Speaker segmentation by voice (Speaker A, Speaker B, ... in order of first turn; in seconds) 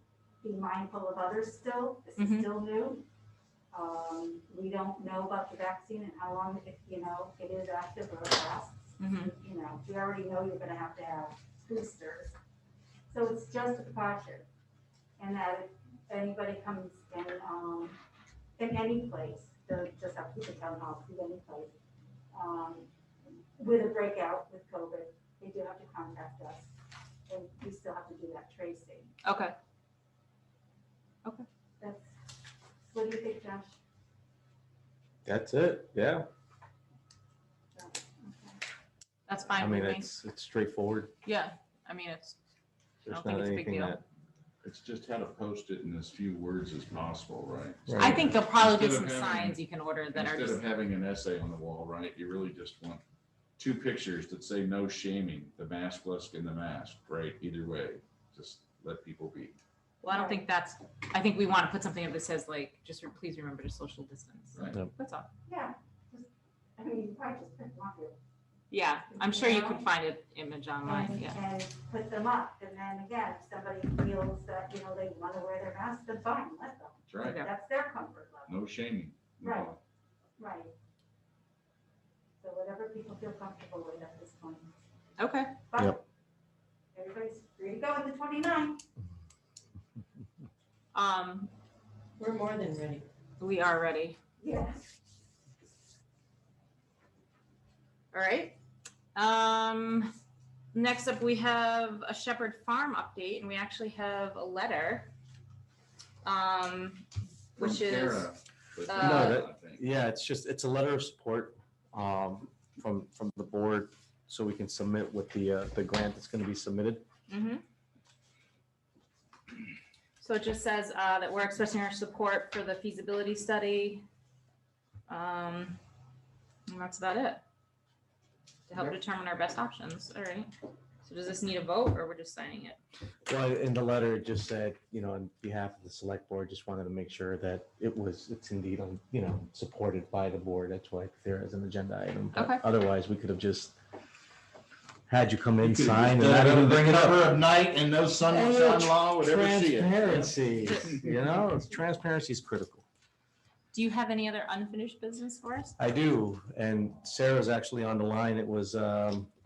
Speaker A: 0.4-3.0, 3.7-12.4, 13.1-14.4, 15.2-18.0, 18.6-21.7, 22.3-22.9, 23.5-26.7, 27.3-29.1, 31.8-32.1, 32.8-33.8, 37.8-38.6, 60.1-60.4, 65.5-68.2, 69.1-69.9, 70.8-78.5, 79.4-79.7, 80.4-80.7, 82.4-84.8, 85.7-86.0, 86.9-88.8, 94.4-94.9
Speaker B: 2.2-2.5, 9.0-9.3, 29.2-29.5, 39.3-40.1, 41.2-42.4, 43.0-44.0, 48.0-50.6, 60.0-65.3, 68.7-71.4, 77.2-77.5, 85.2-85.5, 90.9-91.5, 92.2-94.2, 98.1-98.6, 99.1-100.1, 100.7-105.1, 106.2-108.3, 108.8-109.5, 117.3-117.6, 120.2-124.0, 125.1-125.8, 126.7-127.4, 128.7-130.5, 131.0-132.8, 142.3-142.6, 150.7-151.1, 153.7-155.7
Speaker C: 35.2-36.2, 39.5-41.1, 43.0-44.0, 47.9-48.3, 109.0-117.0, 133.3-143.8, 145.1-147.3, 148.2-152.8, 155.8-159.3
Speaker D: 44.6-49.6, 50.1-53.0, 53.6-59.5, 64.5-64.8, 77.1-77.4, 78.5-79.8, 107.6-109.8, 145.6-151.0